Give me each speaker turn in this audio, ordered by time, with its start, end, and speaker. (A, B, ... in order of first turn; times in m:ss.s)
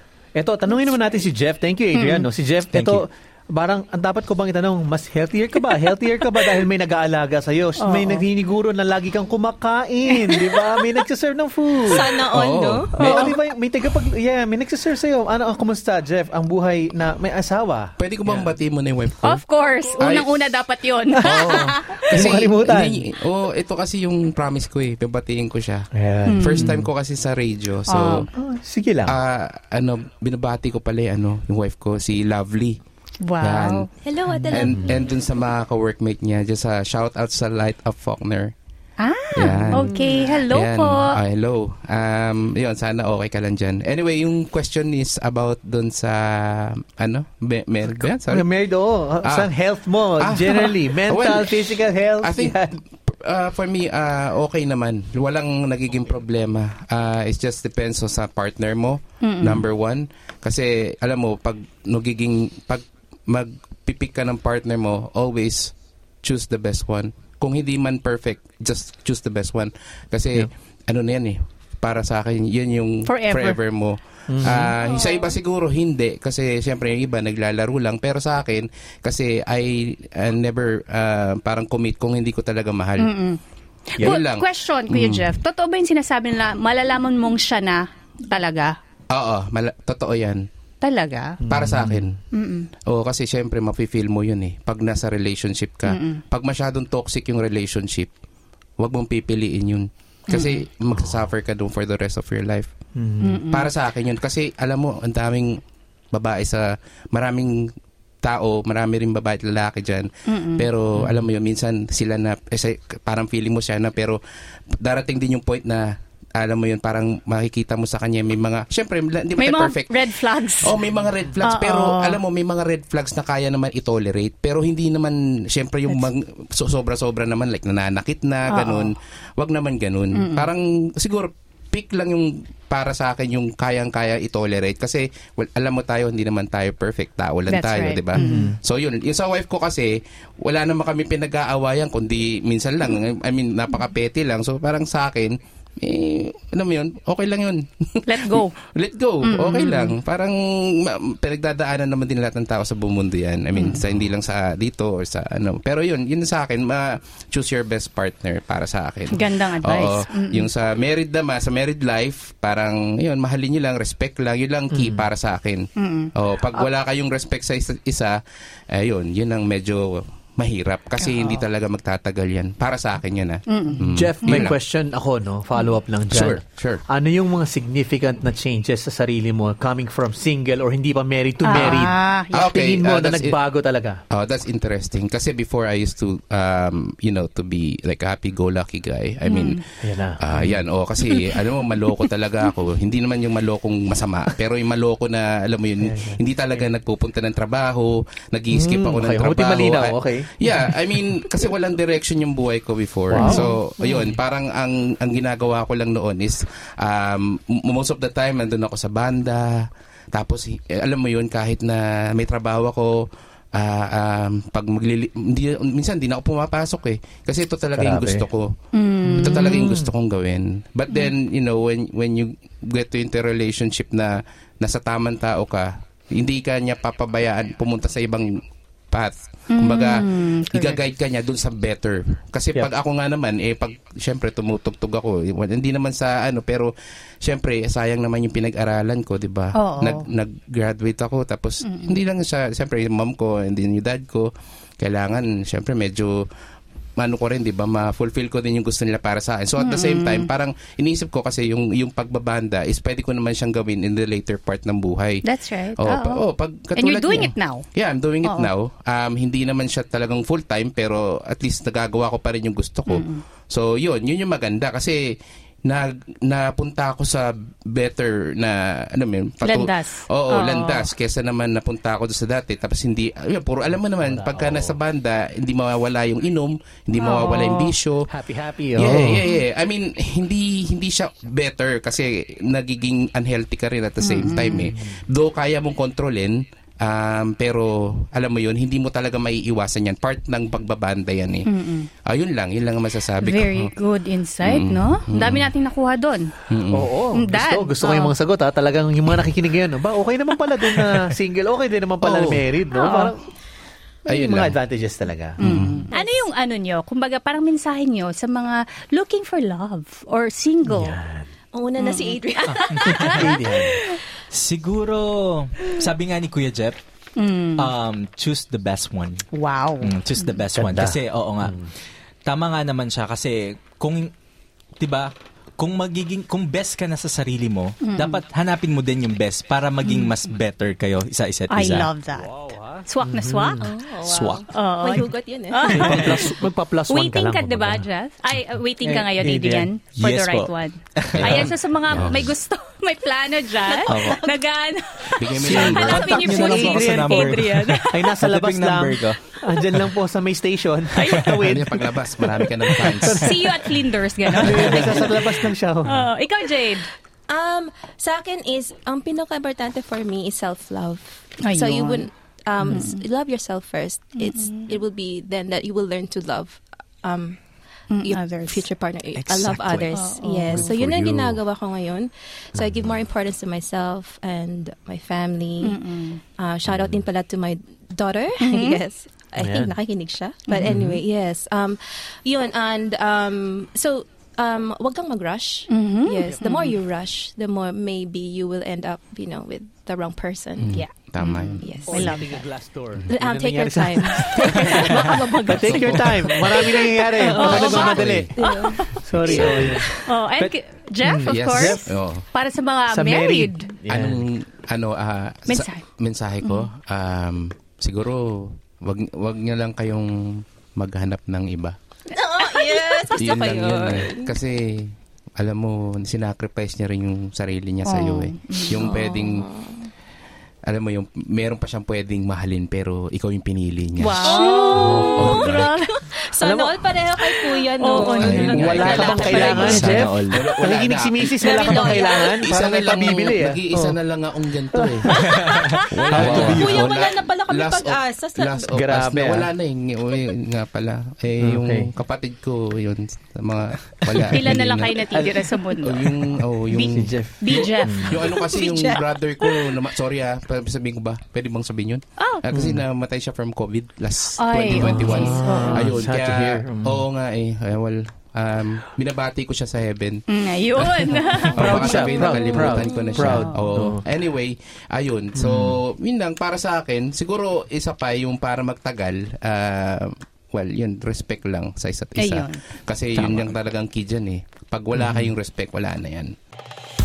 0:00.4-0:12.3 A
0:01.9-0:02.3 B
0:02.7-0:03.0 C
0:07.8-0:08.2 B
0:10.3-0:10.5 B
0:11.9-0:13.0 D
0:12.3-0:13.2 E
0:12.9-0:18.5 A
0:13.0-0:13.4 B
0:18.0-0:19.4 E
0:19.2-0:22.1 B
0:20.0-0:20.4 E
0:21.1-0:23.0 A
0:22.1-0:28.3 E
0:25.9-0:26.9 A
0:26.2-0:26.8 B
0:27.9-0:28.3 B
0:28.3-0:29.2 A
0:29.0-0:32.8 E
0:33.2-0:33.9 B
0:33.4-0:33.9 E
0:34.0-0:35.2 D
0:34.3-0:34.9 A
0:34.5-0:38.5 E
0:39.0-0:41.2 B
0:39.3-0:48.5 E
0:47.8-0:52.8 A
0:49.2-0:49.5 E
0:50.2-1:23.1 E
0:59.2-0:59.6 B
1:13.0-1:13.6 B
1:14.3-1:14.7 A
1:14.6-1:15.3 B
1:23.0-1:23.4 B
1:23.9-1:28.8 B
1:24.0-1:25.3 E
1:29.1-1:30.5 E
1:30.8-1:31.4 B
1:31.4-1:32.1 A
1:31.5-1:32.2 E
1:32.3-1:32.7 B
1:32.9-1:38.1 E
1:35.9-1:36.2 B
1:38.8-1:42.7 E
1:40.3-1:40.6 B
1:43.0-1:43.4 A
1:43.2-1:43.7 B
1:43.5-1:45.6 E
1:46.1-1:54.2 E
1:50.3-1:50.7 B
1:51.0-1:51.2 A
1:54.7-2:00.0 E
1:59.4-2:00.8 B
2:00.6-2:48.2 E
2:01.4-2:02.2 B
2:08.5-2:08.9 B
2:10.1-2:10.5 B
2:17.5-2:18.5 B
2:18.2-2:18.6 A
2:28.1-2:28.6 B
2:29.2-2:30.0 B
2:33.6-2:33.8 B
2:39.1-2:40.5 B
2:44.7-2:45.1 A
2:45.8-2:46.1 B
2:48.7-2:54.6 E
2:51.1-2:51.4 B
2:53.5-2:54.4 B
2:53.8-3:04.0 A
2:56.1-2:56.8 E
3:01.4-3:02.5 B
3:01.5-3:03.4 E
3:04.1-3:09.6 E
3:09.2-3:09.6 B
3:09.8-3:10.6 A
3:10.2-3:38.5 E
3:11.1-3:11.4 B
3:15.8-3:16.2 A
3:18.5-3:20.8 A
3:23.1-3:24.1 A
3:23.2-3:23.5 B
3:37.8-3:38.2 A
3:38.7-3:39.6 B
3:39.0-3:39.9 A
3:39.2-4:06.3 E
3:49.5-3:50.8 B
3:59.6-4:00.1 B
4:01.6-4:02.0 B
4:07.0-4:15.2 E
4:09.6-4:10.3 B
4:15.2-4:16.2 B
4:15.8-4:38.1 E
4:16.7-4:17.7 B
4:18.2-4:18.5 B
4:22.9-4:23.2 B
4:29.4-4:30.9 B
4:34.0-4:34.8 A
4:36.9-4:37.7 B
4:38.1-4:39.2 A
4:38.7-4:51.5 E
4:44.0-4:44.7 B
4:44.7-4:45.0 A
4:51.4-4:51.9 B
4:52.0-4:53.7 E
4:53.2-4:56.3 B
4:54.4-4:55.5 E
4:56.5-4:56.9 E
4:56.7-5:03.2 A
4:57.1-4:58.1 B
5:02.0-5:02.4 E
5:02.7-5:03.1 B
5:04.1-5:05.7 A
5:04.1-5:04.6 E
5:05.4-5:11.0 B
5:05.4-5:05.8 E
5:05.9-5:06.3 D
5:10.6-5:11.2 A
5:11.5-5:13.4 D
5:11.8-5:12.2 B
5:12.7-5:13.9 A
5:12.8-5:13.9 B
5:14.3-5:16.8 C
5:17.2-5:17.7 B
5:17.6-5:19.2 C
5:19.3-5:19.9 B
5:19.8-5:21.6 C
5:20.5-5:21.7 A
5:22.2-5:24.1 C
5:24.8-5:31.9 C
5:27.8-5:28.2 B
5:29.9-5:30.1 B
5:31.5-5:33.7 B
5:32.1-5:33.7 A
5:33.6-5:35.9 D
5:34.0-5:34.5 C
5:34.5-5:48.2 B
5:35.7-5:37.8 A
5:38.8-5:39.7 A
5:39.9-5:41.5 C
5:41.1-5:42.3 E
5:43.9-5:44.2 A
5:45.2-5:46.6 E
5:45.4-5:52.0 A
5:45.6-5:49.2 C
5:50.9-5:51.4 B
5:51.4-5:53.4 E
5:52.6-5:56.9 B
5:52.7-5:53.4 A
5:54.3-5:56.1 A
5:57.3-6:07.4 D
6:01.4-6:02.0 B
6:02.6-6:03.0 B
6:04.2-6:04.7 B
6:07.9-6:08.6 B
6:08.0-6:15.8 D
6:09.2-6:09.9 C
6:09.9-6:10.7 B
6:10.5-6:11.3 A
6:15.6-6:16.2 B
6:16.4-6:30.8 D
6:18.4-6:18.8 B
6:19.4-6:19.7 A
6:20.5-6:20.8 B
6:20.6-6:21.0 A
6:25.7-6:26.7 B
6:30.6-6:31.7 E
6:30.7-6:32.4 B
6:31.6-6:32.3 D
6:31.9-6:38.3 A
6:33.1-6:40.0 D
6:37.3-6:43.7 B
6:37.4-6:38.3 E
6:38.9-6:41.8 A
6:39.2-6:39.8 E
6:41.2-6:42.2 E
6:42.9-6:44.3 A
6:43.9-6:51.8 E
6:45.5-6:45.8 B
6:46.4-6:46.7 B
6:52.1-6:54.4 D
6:52.7-6:53.1 B
6:53.1-6:59.4 E
6:57.9-6:58.9 B
6:58.7-6:59.9 D
7:00.6-7:05.7 E
7:04.0-7:05.9 B
7:04.2-7:09.9 D
7:04.8-7:05.4 A
7:06.4-7:06.8 A
7:07.3-7:09.9 B
7:08.0-7:40.2 E
7:08.2-7:14.0 A
7:09.8-7:10.4 C
7:11.4-7:12.4 D
7:14.7-7:16.9 A
7:15.1-7:18.7 D
7:16.1-7:16.9 C
7:18.7-7:19.5 A
7:21.4-7:21.9 A
7:24.3-7:26.1 B
7:26.7-7:29.6 B
7:26.7-7:28.2 A
7:28.3-7:29.0 D
7:32.2-7:32.4 B
7:32.5-7:32.8 A
7:34.4-7:35.9 B
7:34.7-7:37.0 A
7:40.3-7:43.6 B
7:40.7-7:56.4 E
7:41.3-7:44.0 A
7:45.4-7:45.8 A
7:52.2-7:52.6 B
7:53.2-7:53.5 C
7:54.9-7:55.3 A